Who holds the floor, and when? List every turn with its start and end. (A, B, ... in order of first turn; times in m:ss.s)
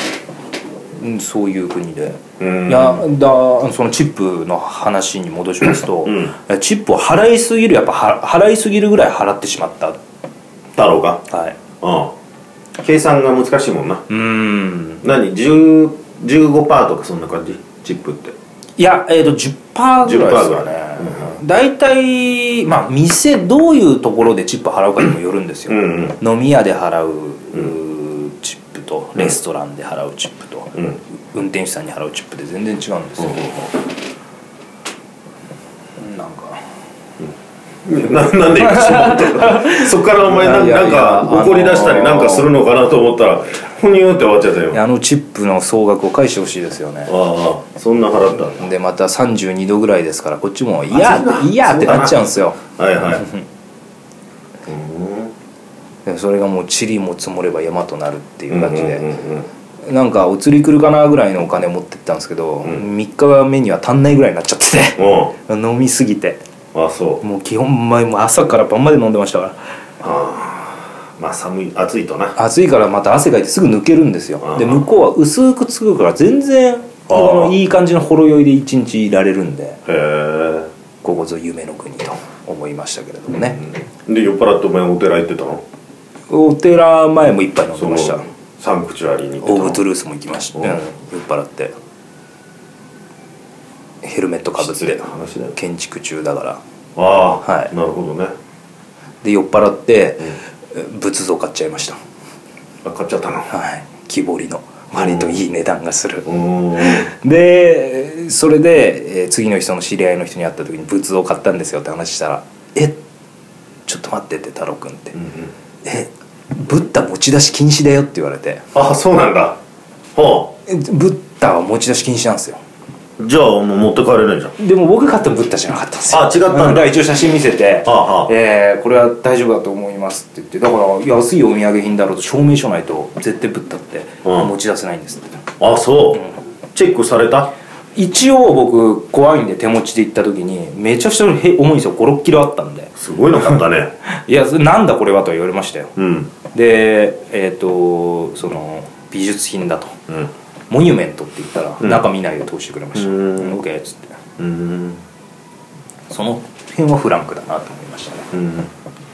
0:01.0-0:10.0 A
0:02.4-0:03.0 B
0:06.0-0:06.3 B
0:10.8-0:11.2 B
0:11.3-0:11.6 A
0:11.8-0:12.1 B
0:12.8-0:14.0 B
0:14.1-0:15.0 A
0:15.0-0:18.4 B
0:18.8-0:30.8 A
0:20.0-0:21.4 B
0:25.7-0:26.2 B
0:31.3-0:33.7 A
0:33.2-0:33.7 B
0:36.0-0:36.7 A
0:37.8-0:44.8 B
0:38.6-0:42.5 A
0:44.7-0:47.1 A
0:47.1-0:48.7 B
0:48.3-0:53.4 A
0:50.9-0:53.2 B
0:54.7-0:55.3 B
0:56.0-0:59.1 A
0:58.5-0:59.5 B
0:59.8-1:06.4 A
1:05.0-1:05.3 B
1:06.7-1:07.2 B
1:07.2-1:09.6 A
1:10.0-1:12.3 B
1:12.4-1:19.8 A
1:14.4-1:14.8 B
1:17.1-1:17.5 B
1:19.8-1:20.7 B
1:21.0-1:23.6 A
1:23.3-1:25.6 B
1:26.3-1:28.2 A
1:27.8-1:29.8 B
1:29.4-1:31.7 A
1:34.0-1:36.6 A
1:34.6-1:35.5 B
1:37.0-1:38.3 B
1:37.4-1:37.7 A
1:39.2-1:42.0 A
1:42.8-1:43.5 B
1:43.5-1:53.0 A
1:45.0-1:45.4 B
1:46.2-1:47.1 B
1:53.9-1:55.2 A
1:55.2-1:55.5 B
1:55.8-1:58.6 A
1:58.7-1:59.6 B
2:00.1-2:00.5 B
2:00.7-2:02.6 A
2:03.2-2:04.5 B
2:04.6-2:15.4 A
2:06.1-2:06.9 B
2:07.8-2:08.3 B
2:14.2-2:14.5 B
2:15.6-2:17.5 B
2:18.0-2:22.9 A
2:23.0-2:23.9 B
2:23.4-2:25.9 A
2:26.0-2:26.3 B
2:26.5-2:30.0 A
2:30.7-2:34.2 A
2:31.8-2:32.0 B
2:32.9-2:33.6 B
2:34.4-2:35.0 B
2:36.1-2:38.3 A
2:38.3-2:38.7 B